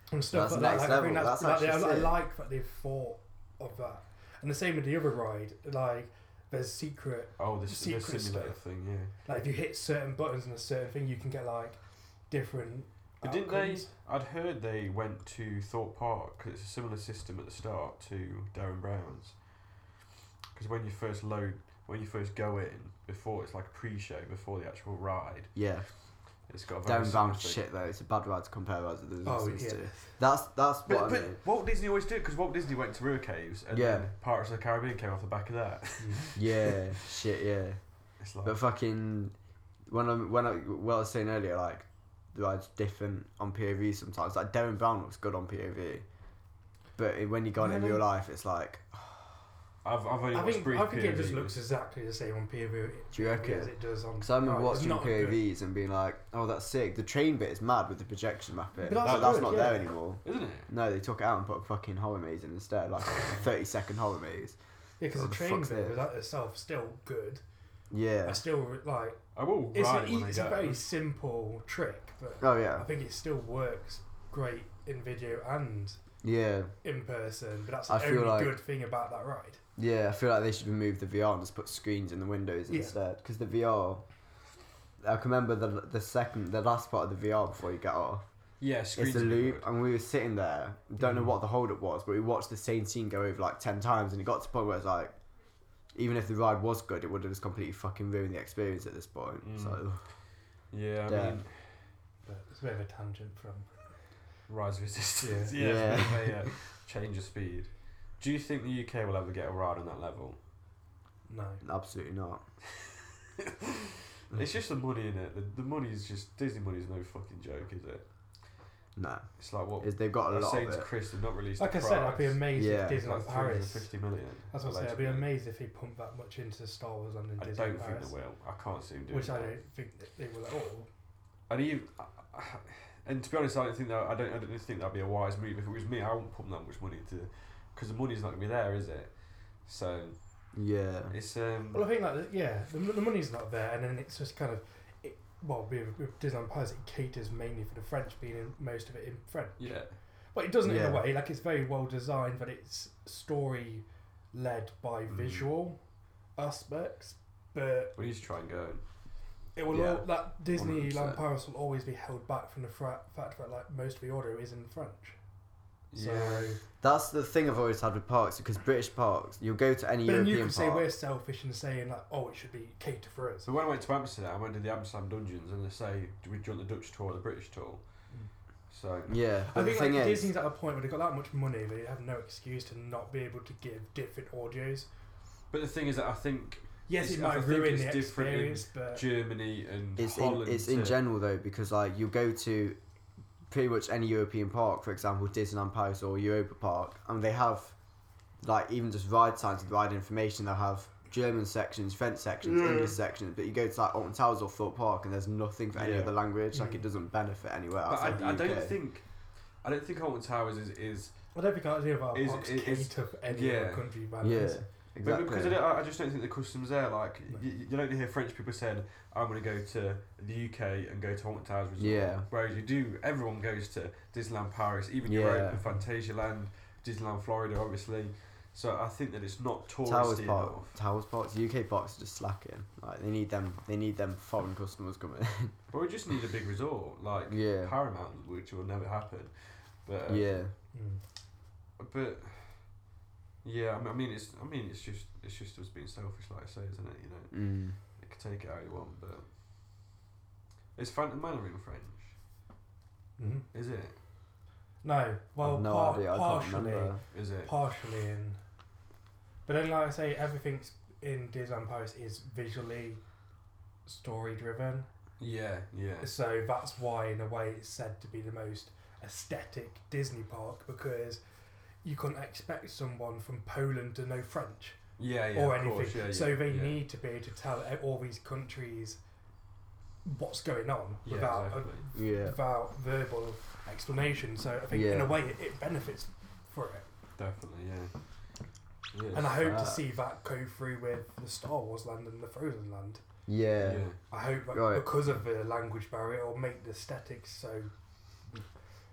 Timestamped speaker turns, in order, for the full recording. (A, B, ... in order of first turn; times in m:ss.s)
0:00.1-0:08.6 A
0:00.3-0:02.2 B
0:07.4-0:09.1 C
0:09.2-0:11.8 A
0:12.3-0:13.9 A
0:13.2-0:19.4 C
0:20.5-0:25.5 C
0:25.5-0:25.9 B
0:26.5-0:27.6 C
0:26.8-0:31.4 B
0:29.2-0:30.2 A
0:30.9-0:37.1 C
0:33.7-0:34.1 B
0:36.0-0:36.3 A
0:36.4-0:37.8 B
0:38.2-0:38.6 C
0:38.4-0:39.3 B
0:39.9-0:46.0 B
0:47.0-0:49.4 B
0:47.6-0:48.0 A
0:49.8-0:51.6 C
0:50.3-0:55.4 A
0:53.1-1:04.6 B
0:58.8-0:59.9 A
0:59.0-1:00.7 C
1:05.0-1:07.4 A
1:05.1-1:06.0 B
1:07.9-1:08.4 B
1:08.2-1:09.2 A
1:09.3-1:10.8 C
1:09.7-1:16.0 A
1:12.4-1:12.8 B
1:16.2-1:16.7 B
1:16.8-1:19.6 A
1:17.9-1:18.6 B
1:19.8-1:24.1 B
1:22.7-1:22.9 A
1:25.0-1:28.2 B
1:28.6-1:29.7 C
1:28.9-1:35.1 B
1:31.0-1:31.3 A
1:35.9-1:40.1 B
1:39.4-1:39.8 C
1:40.7-1:41.9 C
1:41.1-1:41.4 B
1:42.2-1:43.8 A
1:44.5-1:50.4 C
1:45.2-1:45.5 A
1:45.6-1:46.5 B
1:51.3-1:51.6 A
1:51.6-1:52.4 B
1:52.8-1:58.0 C
1:59.0-2:00.9 B
1:59.4-2:05.3 C
2:01.6-2:03.9 A
2:02.5-2:03.0 B
2:04.5-2:08.1 A
2:07.4-2:09.5 C
2:09.1-2:10.9 A
2:11.5-2:20.2 C
2:20.5-2:21.1 B
2:21.1-2:21.8 C
2:21.7-2:29.8 A
2:29.6-2:29.9 C
2:30.3-2:35.8 A
2:30.6-2:31.0 B
2:35.1-2:35.5 C
2:36.4-2:37.9 A
2:38.0-2:38.8 C
2:39.6-2:45.2 A
2:39.7-2:41.2 B
2:45.9-2:46.6 C
2:45.9-2:46.6 A
2:46.8-2:50.9 B
2:50.0-2:53.5 A
2:53.4-2:57.8 C
2:58.7-2:59.2 C
2:59.1-3:00.3 B
2:59.5-3:04.9 A
3:05.5-3:11.0 C
3:06.9-3:09.0 A
3:10.0-3:12.8 B
3:13.5-3:17.8 B
3:18.4-3:28.8 B
3:22.5-3:22.9 C
3:25.7-3:26.2 C
3:26.5-3:26.8 A
3:27.8-3:29.0 C
3:29.6-3:31.1 C
3:31.3-3:34.6 A
3:32.1-3:33.9 C
3:34.2-3:35.6 B
3:35.0-3:50.8 C
3:41.8-3:42.3 B
3:45.0-3:45.6 B
3:49.8-3:55.6 B
3:55.7-4:00.4 C
3:57.3-3:57.7 B
4:00.1-4:00.5 B
4:00.7-4:01.0 A
4:01.8-4:02.6 C
4:03.4-4:07.3 C
4:07.3-4:07.8 B
4:08.0-4:09.3 C
4:10.8-4:12.2 C
4:13.2-4:13.5 A
4:13.5-4:14.0 C
4:14.8-4:18.4 A
4:15.4-4:17.0 B
4:17.1-4:17.5 C
4:19.4-4:23.0 A
4:23.8-4:24.9 A
4:25.2-4:26.1 C
4:26.0-4:31.2 A
4:31.8-4:34.8 A
4:35.0-4:36.8 C
4:35.3-4:39.0 A
4:40.0-4:46.9 A
4:41.0-4:41.8 C
4:41.9-4:42.4 B
4:44.7-4:45.2 B
4:47.2-4:47.9 C
4:48.9-4:49.4 C
4:49.1-4:53.0 A
4:49.3-4:49.8 B
4:53.3-4:53.8 B
4:53.6-4:54.0 C
4:54.1-4:57.7 A
4:54.5-4:55.0 B